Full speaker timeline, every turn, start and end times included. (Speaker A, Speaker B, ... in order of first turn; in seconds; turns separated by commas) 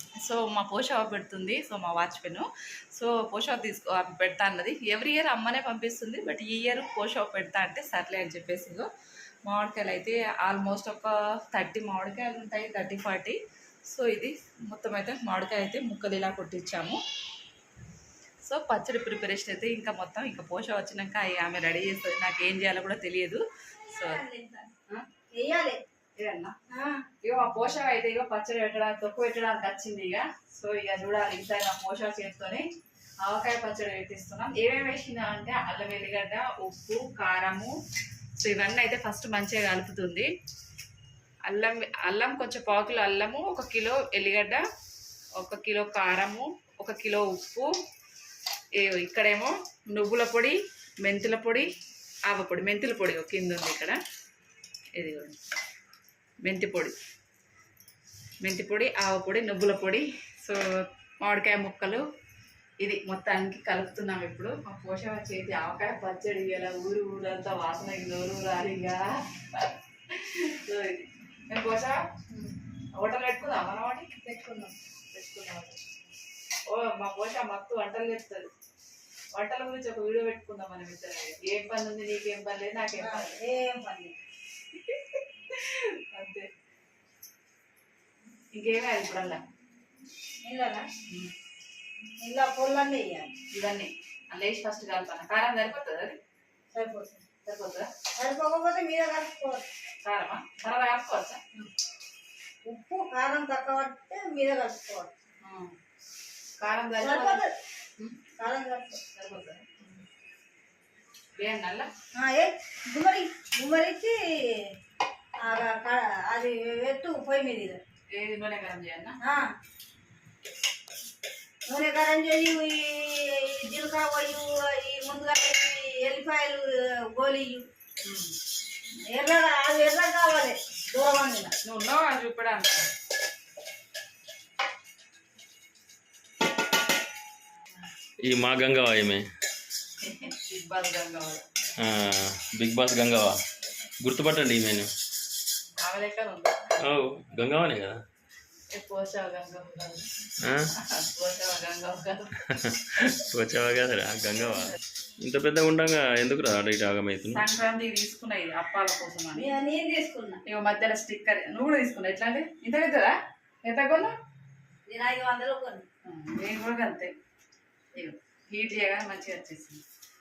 Speaker A: 0.2-8.9, Speaker A: 9.5-17.0, Speaker A: 18.4-24.2, Speaker B: 23.9-24.7, Speaker B: 25.3-25.8, Speaker A: 26.2-26.5, Speaker B: 26.7-27.1, Speaker A: 27.2-32.6, Speaker A: 33.2-37.8, Speaker A: 38.4-40.3, Speaker A: 41.5-44.6, Speaker A: 45.4-47.7, Speaker A: 48.8-51.7, Speaker A: 52.3-54.0, Speaker A: 55.0-55.4, Speaker A: 56.4-57.0, Speaker A: 58.4-62.0, Speaker A: 62.8-72.0, Speaker A: 73.0-74.1, Speaker B: 74.2-74.8, Speaker A: 75.1-75.8, Speaker A: 76.7-78.5, Speaker A: 79.3-83.4, Speaker B: 83.0-84.2, Speaker A: 84.7-86.5, Speaker A: 88.5-89.4, Speaker B: 90.4-90.9, Speaker A: 91.1-91.3, Speaker B: 92.2-93.3, Speaker A: 93.5-96.2, Speaker B: 96.7-97.3, Speaker A: 97.4-97.9, Speaker B: 98.2-99.7, Speaker A: 100.0-101.4, Speaker B: 102.7-105.1, Speaker A: 105.4-105.7, Speaker A: 106.6-107.4, Speaker B: 107.0-107.5, Speaker B: 108.4-109.0, Speaker A: 109.1-110.0, Speaker A: 111.4-111.9, Speaker B: 112.2-114.7, Speaker B: 115.4-117.8, Speaker A: 118.1-119.2, Speaker B: 119.2-119.5, Speaker B: 121.7-127.7, Speaker A: 128.0-128.3, Speaker B: 129.1-131.6, Speaker A: 131.6-132.9, Speaker C: 138.2-139.2, Speaker A: 140.0-141.5, Speaker C: 141.8-143.4, Speaker C: 144.0-144.9, Speaker A: 145.8-146.8, Speaker C: 146.8-148.0, Speaker A: 148.7-150.1, Speaker C: 150.4-150.7, Speaker A: 150.8-152.4, Speaker C: 152.5-157.4, Speaker A: 157.3-159.5, Speaker B: 159.3-160.4, Speaker A: 160.5-164.1, Speaker B: 164.9-165.9, Speaker A: 166.1-167.1, Speaker A: 167.9-169.8